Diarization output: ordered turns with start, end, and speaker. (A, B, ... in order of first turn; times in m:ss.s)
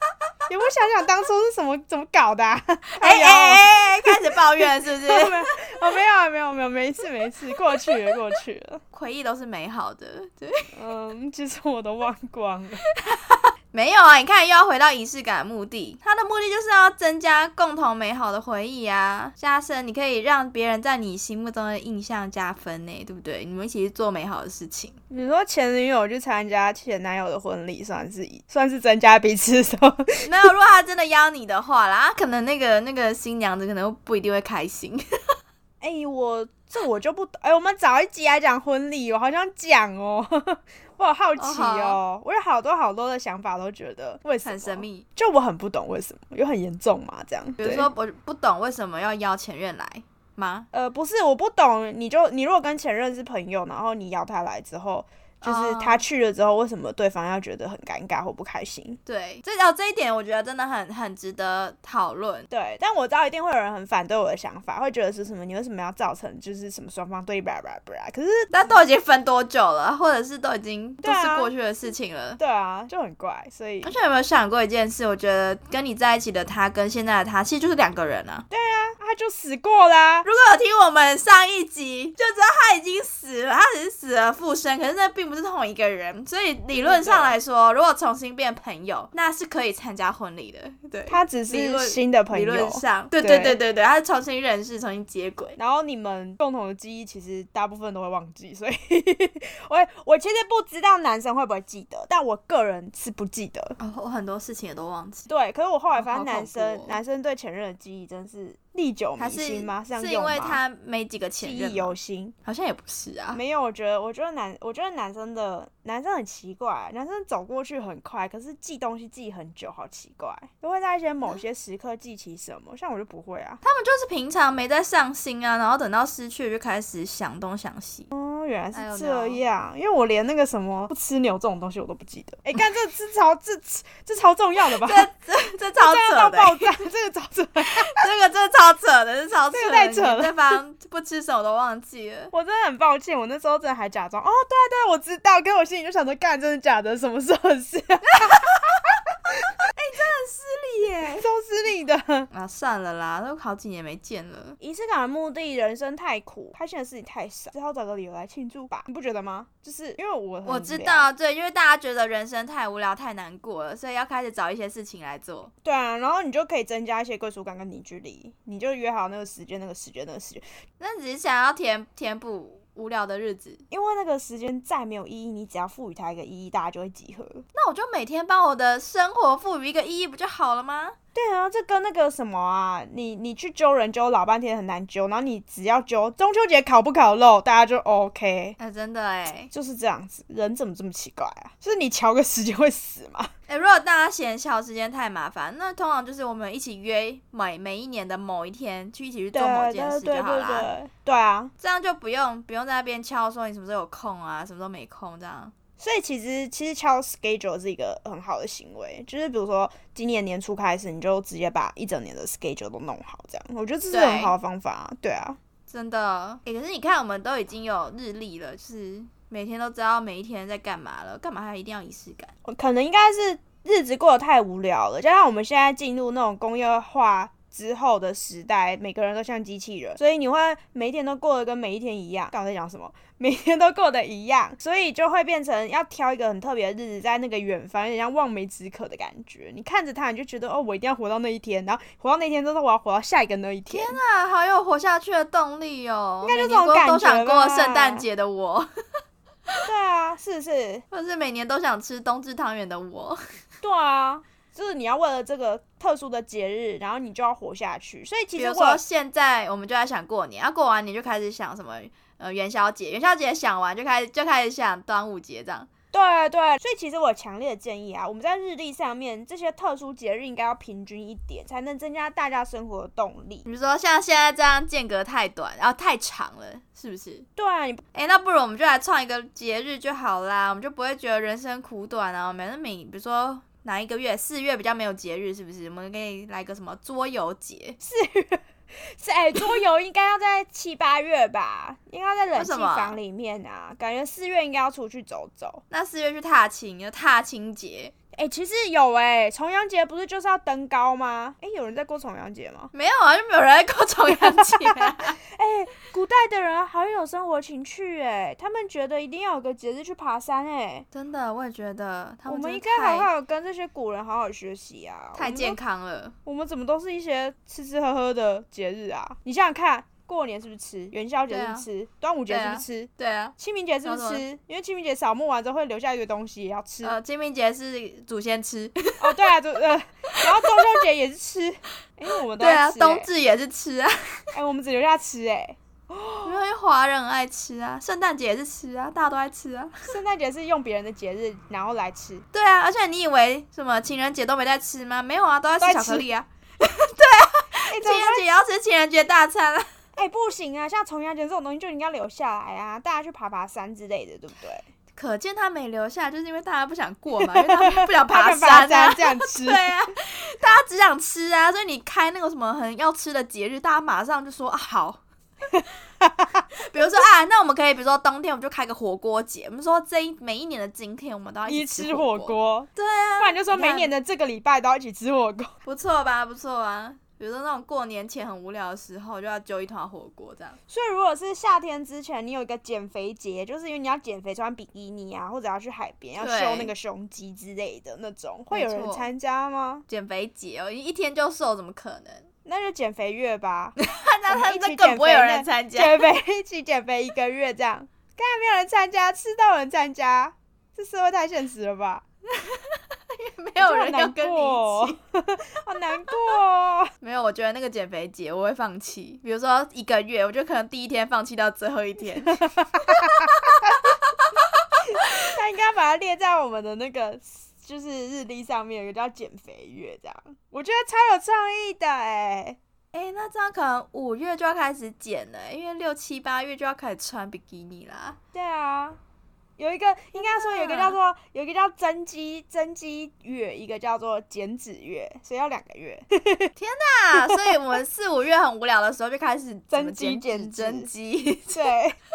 0:00.5-0:08.8 A
0:03.0-0:05.4 B
0:08.9-0:10.7 B
0:10.7-0:12.8 A
0:13.0-0:25.0 B
0:25.1-0:30.2 A
0:30.2-0:35.0 B
0:35.8-0:47.9 A
0:41.4-0:42.0 B
0:44.4-0:45.0 B
0:47.6-0:50.7 B
0:50.7-0:59.0 A
0:55.4-0:56.0 B
0:59.0-1:02.5 B
1:02.5-1:08.5 A
1:08.5-1:12.4 B
1:11.0-1:11.5 A
1:12.4-1:13.9 A
1:13.8-1:18.4 B
1:18.5-1:20.3 A
1:20.2-1:35.6 B
1:26.7-1:27.4 A
1:31.1-1:33.6 A
1:35.6-1:43.8 A
1:43.8-1:45.3 B
1:45.3-1:50.6 A
1:45.9-1:47.0 B
1:49.2-1:53.4 B
1:51.4-1:52.3 A
1:53.3-2:03.6 A
2:03.6-2:08.1 B
2:08.1-2:15.1 A
2:08.7-2:09.4 B
2:14.6-2:16.7 B
2:15.8-2:18.1 A
2:17.6-2:22.3 B
2:19.5-2:20.6 A
2:22.3-2:28.6 A
2:28.2-2:28.8 B
2:29.6-2:31.3 B
2:31.2-2:32.3 A
2:32.3-2:34.6 B
2:34.6-2:41.1 A
2:40.4-2:45.5 B
2:45.6-2:50.4 A
2:50.8-2:53.6 B
2:53.7-2:57.4 A
2:57.5-3:01.0 B
3:01.1-3:08.6 A
3:08.6-3:09.5 B
3:09.5-3:13.3 A
3:13.5-3:20.7 B
3:19.3-3:21.5 A
3:21.6-3:25.5 B
3:25.8-3:35.4 A
3:33.9-3:34.3 B
3:35.7-3:42.3 B
3:42.4-4:04.0 A
4:03.7-4:08.7 B
4:06.2-4:08.0 A
4:09.6-4:10.8 A
4:10.9-4:13.2 B
4:13.6-4:18.8 A
4:18.4-4:25.7 B
4:25.9-4:33.4 A
4:33.4-4:37.2 B
4:37.4-4:37.8 A
4:37.9-4:47.8 B
4:47.8-4:55.6 A
4:52.4-4:53.0 B
4:55.7-4:57.9 B
4:58.1-5:02.7 A
5:02.7-5:05.2 B
5:04.2-5:10.8 A
5:10.9-5:13.1 B
5:12.3-5:15.6 A
5:15.2-5:16.1 B
5:16.2-5:27.0 A
5:21.3-5:21.6 B
5:22.3-5:24.2 B
5:26.8-5:29.3 B
5:29.0-5:33.1 A
5:30.1-5:30.6 B
5:32.4-5:34.3 B
5:34.3-5:36.4 A
5:36.2-5:39.9 B
5:39.8-5:42.2 A
5:42.3-5:49.7 B
5:45.6-5:46.1 A
5:47.7-5:48.2 A
5:50.0-5:54.6 A
5:55.0-6:05.0 B
5:57.2-5:59.7 A
6:05.5-6:06.4 A
6:06.5-6:13.9 B
6:11.5-6:15.5 A
6:15.6-6:20.6 B
6:20.7-6:29.8 A
6:26.2-6:26.7 B
6:28.5-6:29.1 B
6:29.9-6:32.3 B
6:32.4-6:33.8 A
6:33.8-6:36.0 B
6:34.3-6:42.0 A
6:42.3-6:45.0 B
6:43.6-6:46.9 A
6:47.0-6:55.3 B
6:52.2-6:53.9 A
6:54.9-7:02.6 A
7:02.9-7:08.2 B
7:08.3-7:09.0 A
7:09.6-7:16.5 A
7:10.2-7:11.0 B
7:16.6-7:21.8 B
7:17.3-7:17.5 A
7:19.7-7:20.9 A
7:21.5-7:22.0 A